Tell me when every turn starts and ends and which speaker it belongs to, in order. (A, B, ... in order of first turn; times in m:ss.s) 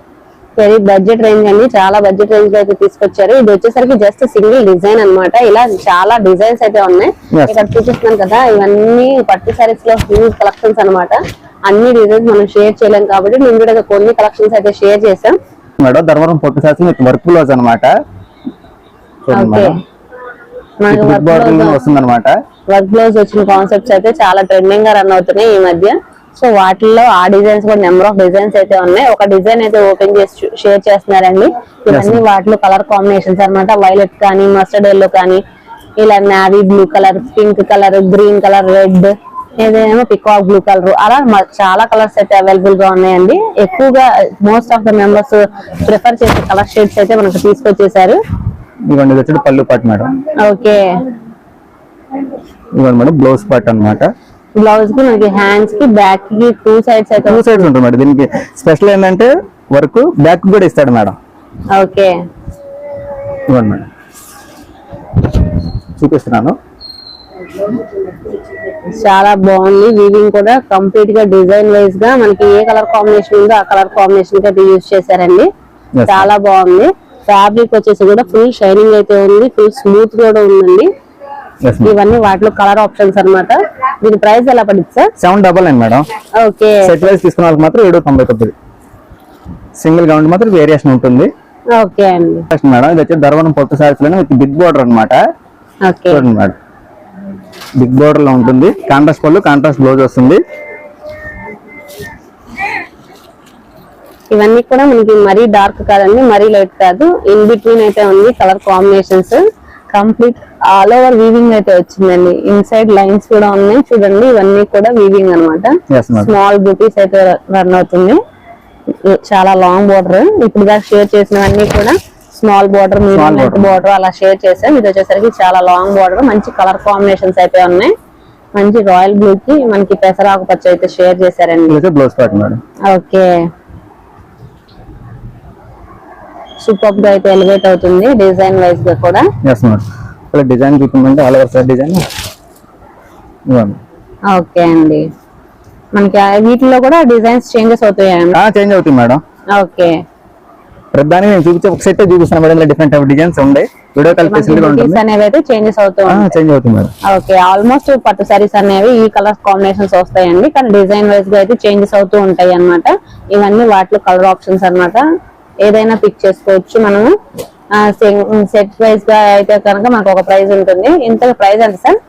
0:00.6-0:15.4 A
0:07.3-0:07.6 B
0:15.8-0:17.9 B
0:19.2-0:19.8 B
0:19.3-0:19.8 A
0:20.8-0:21.8 A
0:20.9-0:22.4 B
0:22.7-0:35.4 A
0:31.9-0:32.2 B
0:36.0-0:48.2 A
0:48.9-0:50.2 B
0:50.4-0:50.9 A
0:52.8-0:54.1 B
0:54.6-0:57.7 A
0:57.3-1:01.2 B
1:01.7-1:02.1 A
1:03.5-1:03.9 B
1:06.0-1:06.6 B
1:08.8-1:15.5 A
1:16.0-1:16.3 B
1:16.1-1:20.9 A
1:21.6-1:22.0 B
1:21.8-1:25.1 A
1:25.2-1:26.1 B
1:26.4-1:27.1 A
1:26.8-1:28.5 B
1:29.8-1:31.3 B
1:31.8-1:32.5 A
1:32.5-1:35.2 B
1:35.8-1:36.3 A
1:36.1-1:36.6 B
1:37.8-1:40.4 B
1:44.3-1:58.2 A
1:55.9-1:56.3 B
1:59.1-2:07.9 A
2:03.1-2:03.8 B
2:08.6-2:11.8 A
2:11.7-2:12.6 B
2:12.9-2:13.3 A
2:16.6-2:19.3 A
2:19.4-2:22.0 B
2:23.5-2:23.8 B
2:24.3-2:25.0 A
2:25.9-2:28.4 A
2:28.3-2:29.2 B
2:29.6-2:30.0 A
2:30.9-2:35.0 B
2:34.1-2:36.3 A
2:36.1-2:36.9 B
2:37.1-2:45.0 A
2:45.6-2:47.1 A
2:47.8-2:52.0 A